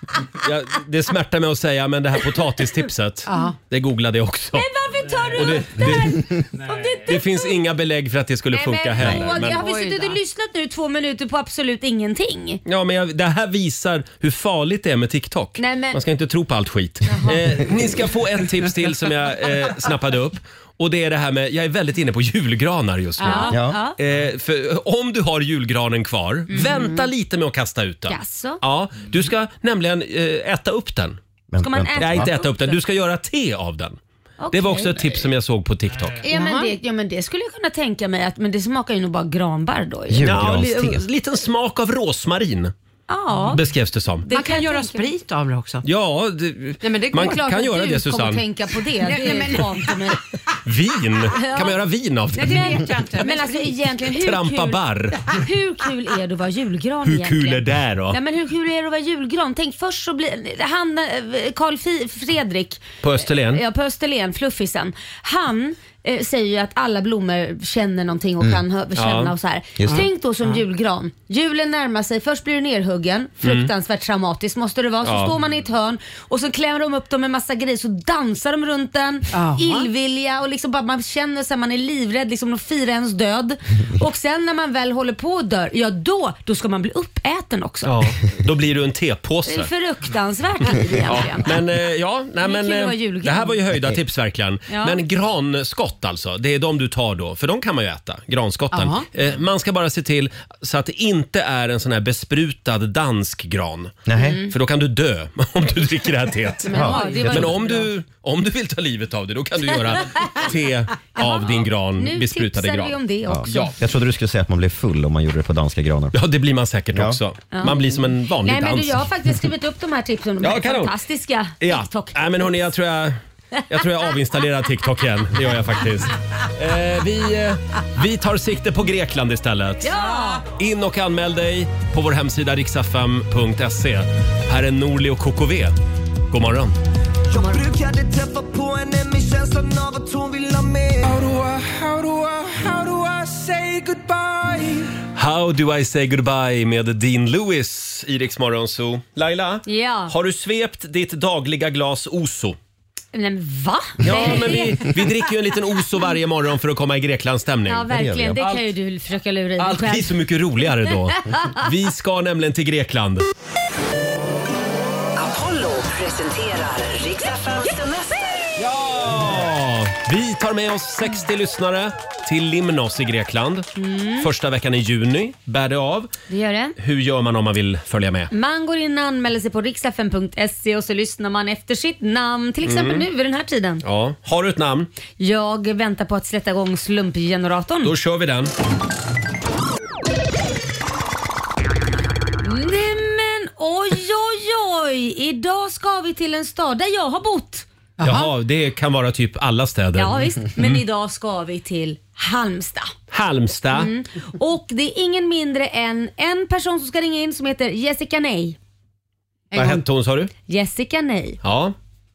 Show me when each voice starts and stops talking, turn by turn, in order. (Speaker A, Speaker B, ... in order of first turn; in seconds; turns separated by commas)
Speaker A: 0.4-4.7, Speaker B: 3.3-3.6, Speaker C: 4.5-7.5, Speaker A: 5.3-6.4, Speaker A: 7.1-9.7, Speaker C: 8.5-12.6, Speaker B: 9.3-10.2, Speaker A: 12.7-31.2, Speaker C: 15.6-16.0, Speaker C: 17.1-17.4, Speaker C: 23.2-24.0, Speaker D: 23.5-23.8, Speaker C: 26.5-27.1, Speaker C: 28.1-28.6, Speaker D: 31.5-32.3, Speaker C: 31.6-32.8, Speaker A: 32.0-34.0, Speaker C: 34.4-35.2, Speaker A: 34.5-36.2, Speaker C: 36.2-40.3, Speaker B: 36.3-36.7, Speaker D: 40.1-41.0, Speaker A: 40.2-42.7, Speaker C: 43.1-43.6, Speaker A: 43.5-44.3, Speaker C: 44.2-45.1, Speaker B: 44.3-45.9, Speaker A: 45.8-48.4, Speaker B: 46.8-47.5, Speaker C: 47.2-50.2, Speaker B: 49.0-50.2, Speaker A: 50.6-52.9, Speaker C: 51.4-51.8, Speaker B: 52.3-54.0, Speaker C: 52.4-87.9, Speaker A: 54.1-55.3, Speaker A: 57.0-58.2, Speaker A: 63.0-63.6, Speaker A: 69.0-69.3, Speaker B: 69.9-70.6, Speaker A: 73.4-73.7, Speaker A: 75.0-75.3, Speaker B: 79.3-79.9, Speaker A: 87.8-89.7, Speaker C: 89.5-91.5, Speaker A: 91.1-104.0, Speaker C: 92.4-93.6, Speaker C: 94.7-95.0, Speaker B: 98.7-99.1, Speaker D: 104.1-104.4, Speaker C: 104.2-104.5, Speaker A: 104.5-113.8, Speaker C: 106.7-107.8, Speaker D: 106.7-107.2, Speaker B: 107.1-107.7, Speaker C: 111.2-113.7, Speaker D: 113.3-116.2, Speaker A: 116.1-119.0, Speaker C: 117.5-122.2, Speaker A: 120.4-120.9, Speaker A: 121.6-123.2, Speaker A: 123.7-135.8, Speaker C: 129.8-130.4, Speaker A: 136.3-136.8, Speaker E: 137.3-144.9, Speaker A: 145.2-152.6, Speaker C: 149.7-150.1, Speaker C: 153.1-154.9, Speaker A: 154.0-158.6, Speaker C: 157.7-160.2, Speaker D: 157.9-158.4, Speaker A: 159.6-163.3, Speaker C: 160.9-161.6, Speaker F: 165.2-168.5, Speaker A: 168.6-173.7, Speaker C: 173.8-174.3, Speaker A: 174.2-176.1, Speaker C: 176.3-176.8, Speaker A: 176.8-178.3, Speaker C: 178.3-183.8, Speaker A: 182.7-183.1, Speaker A: 183.8-184.9, Speaker C: 185.2-187.9, Speaker A: 187.8-188.5, Speaker C: 192.4-197.7, Speaker B: 198.0-198.3, Speaker A: 198.0-200.8, Speaker C: 199.9-202.9, Speaker A: 203.1-203.9, Speaker C: 203.7-208.6, Speaker B: 209.5-209.8, Speaker A: 209.5-210.3, Speaker C: 210.5-211.4, Speaker A: 211.4-211.8